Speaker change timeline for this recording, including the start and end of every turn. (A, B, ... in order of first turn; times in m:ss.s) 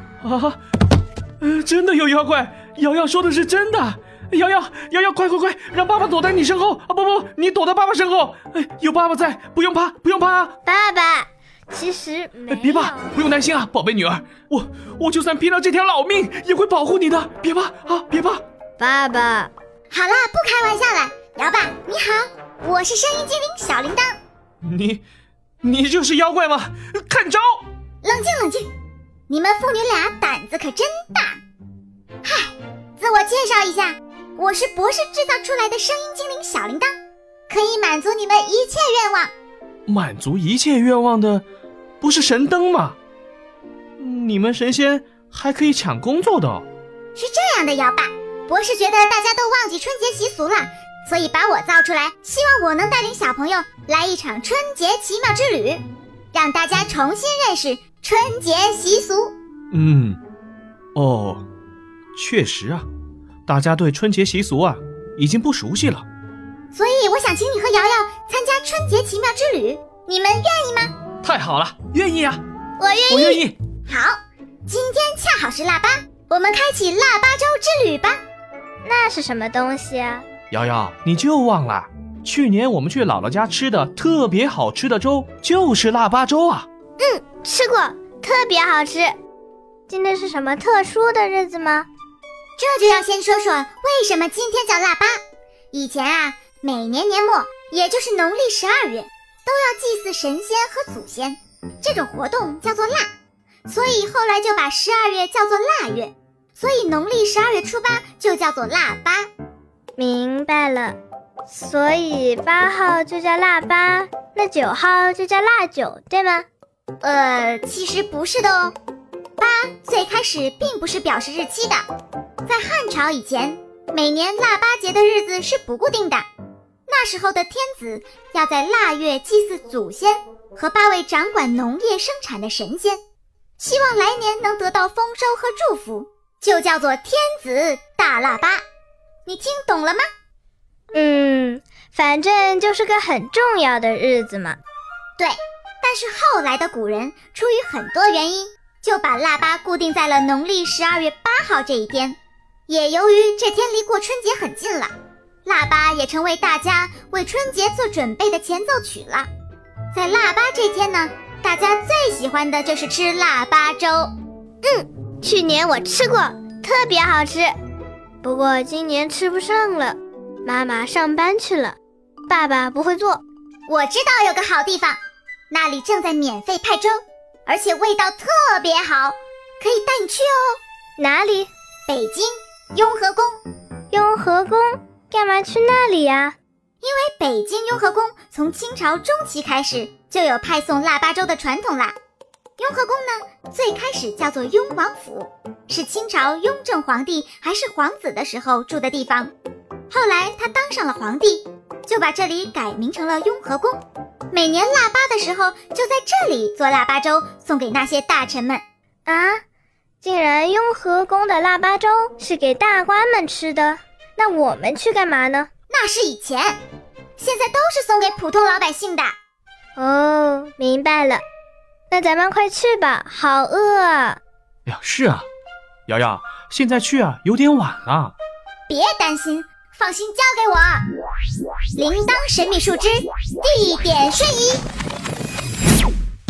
0:00.2-0:00.6 A
0:01.4-0:10.5 A
0:10.6-0:13.1 B
0:12.5-0:18.4 A
0:18.8-0:19.5 B
0:19.9-0:24.2 C
0:24.6-0:25.0 A
0:25.6-0:27.6 A
0:28.0-0:28.7 C
0:29.3-0:31.4 C
0:32.2-0:36.9 C
0:37.5-0:39.3 C
0:39.9-0:41.4 A
0:42.0-0:43.0 A
0:44.0-0:46.6 A
0:47.2-0:59.3 C
0:59.7-1:00.2 A
1:00.9-1:01.4 A
1:02.1-1:02.9 A
1:03.4-1:06.1 A
1:06.7-1:11.0 C
1:11.2-1:12.4 A
1:12.8-1:13.4 B
1:13.1-1:13.5 A
1:13.9-1:18.2 C
1:18.8-1:20.2 B
1:20.5-1:26.6 A
1:27.0-1:29.1 B
1:29.9-1:31.9 B
1:32.6-1:35.1 C
1:35.7-1:43.1 C
1:43.6-1:49.3 C
1:50.0-1:51.0 B
1:51.5-1:56.4 B
1:57.0-1:58.8 C
1:59.4-2:01.8 C
2:02.4-2:06.2 C
2:06.9-2:13.0 C
2:13.6-2:18.6 C
2:19.2-2:20.0 C
2:20.9-2:24.6 B
2:25.2-2:34.9 C
2:35.4-2:39.3 C
2:39.9-2:44.1 C
2:44.6-2:47.5 B
2:48.2-2:51.8 B
2:52.3-2:53.2 B
2:53.7-2:55.0 C
2:55.5-3:00.6 C
3:01.0-3:01.5 B
3:01.9-3:03.4 C
3:03.9-3:06.4 B
3:06.8-3:11.9 C
3:12.6-3:19.3 C
3:19.9-3:28.6 C
3:29.0-3:29.4 B
3:30.0-3:35.5 B
3:35.7-3:36.6 C
3:37.2-3:39.1 C
3:39.8-3:41.2 B
3:41.9-3:44.2 B
3:44.6-3:45.2 A
3:45.9-3:48.1 A
3:48.7-3:50.8 C
3:51.8-3:54.6 C